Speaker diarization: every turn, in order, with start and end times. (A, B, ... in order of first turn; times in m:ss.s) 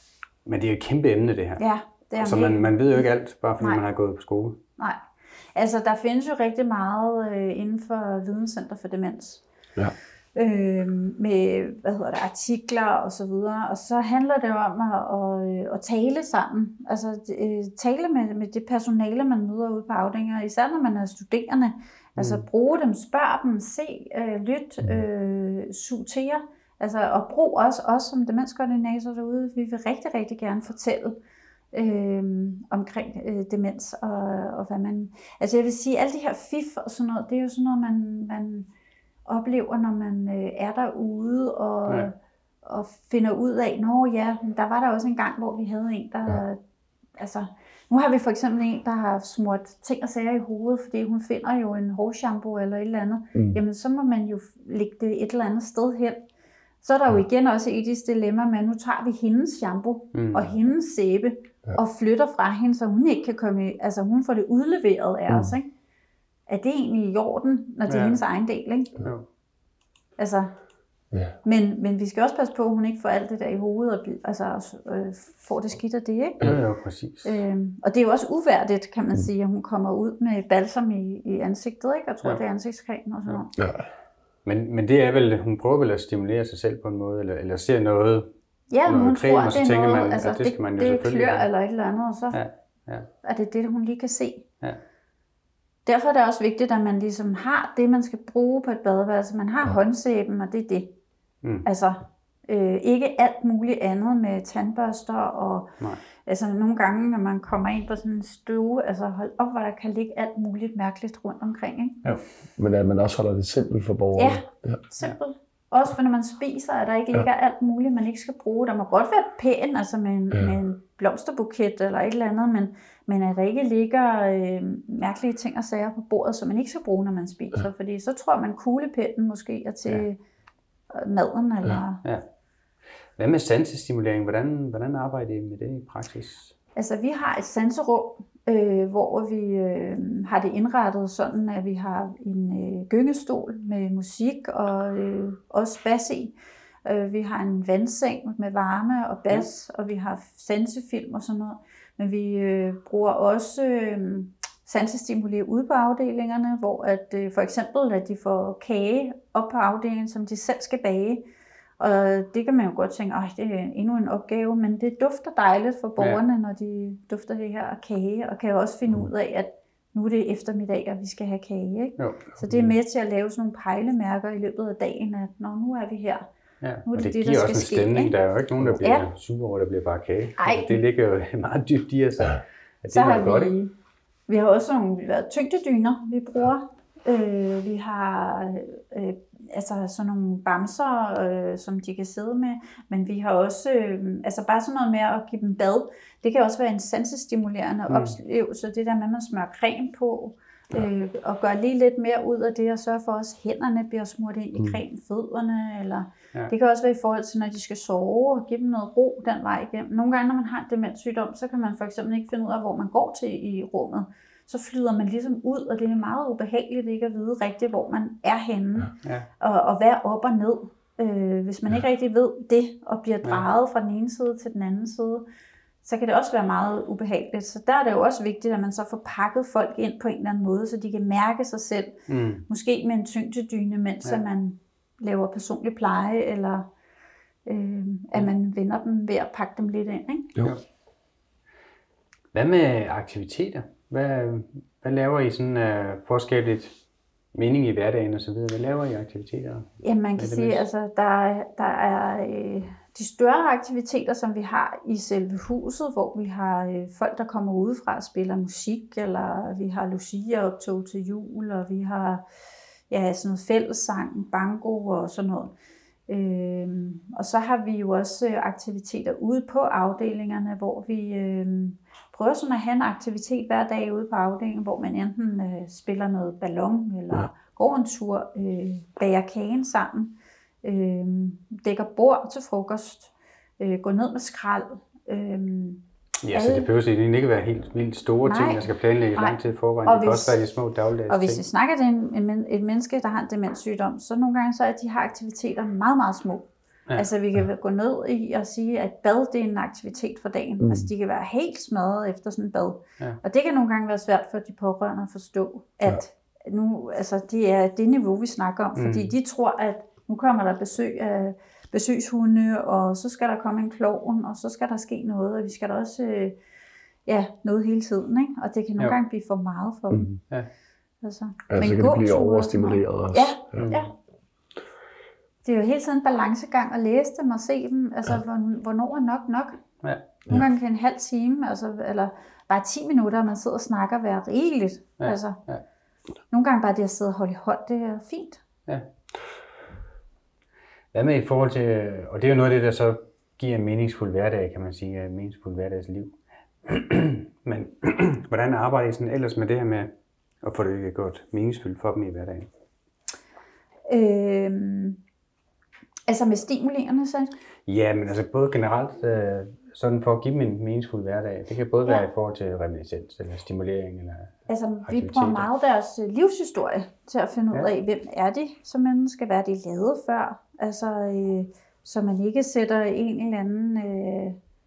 0:00.4-0:01.6 A
0:01.6-0:03.0 B
0:02.2-0:04.6 A
0:05.6-0:09.4 B
0:10.4-0:31.2 B
0:22.2-0:22.4 A
0:31.7-0:38.7 B
0:39.3-0:46.6 B
0:47.2-0:56.2 B
0:56.8-1:05.7 B
1:00.1-1:00.5 A
1:06.5-1:08.9 B
1:07.9-1:08.2 A
1:10.2-1:10.5 B
1:11.4-1:16.6 B
1:16.4-1:17.4 A
1:17.2-1:23.5 B
1:23.6-1:23.9 C
1:24.4-1:28.3 A
1:28.7-1:32.4 B
1:28.9-1:31.5 A
1:32.3-1:33.1 A
1:33.2-1:34.5 B
1:35.9-1:40.9 B
1:41.6-1:52.0 B
1:52.6-1:54.8 C
1:54.2-2:10.2 B
2:10.9-2:12.0 B
2:13.2-2:16.6 A
2:16.8-2:26.3 B
2:26.8-2:41.2 B
2:41.8-2:56.2 B
2:46.0-2:46.2 A
2:52.0-2:52.8 A
2:56.6-3:03.5 A
2:56.9-2:58.1 B
2:58.8-2:59.1 B
3:00.4-3:00.8 B
3:02.9-3:03.7 B
3:04.3-3:45.2 B
3:17.9-3:18.2 A
3:45.8-3:56.7 B
3:52.1-3:52.4 A
3:57.5-4:00.3 B
4:02.3-4:06.8 A
4:07.3-4:10.6 A
4:09.8-4:22.2 B
4:22.9-4:25.5 B
4:26.1-4:46.7 B
4:46.2-4:51.4 A
4:48.2-4:50.4 B
4:51.1-5:16.4 B
5:00.6-5:00.9 C
5:08.8-5:09.1 A
5:17.1-5:20.1 B
5:20.2-5:20.5 A
5:21.0-5:23.9 B
5:21.5-5:23.7 C
5:23.6-5:23.9 A
5:25.4-5:29.6 B
5:30.3-5:35.4 B
5:35.0-5:35.6 A
5:36.3-5:38.4 B
5:40.9-5:49.9 A
5:50.4-5:52.5 A
5:53.9-5:55.0 B
5:56.1-5:57.3 B
5:57.7-6:05.5 A
6:04.5-6:14.4 B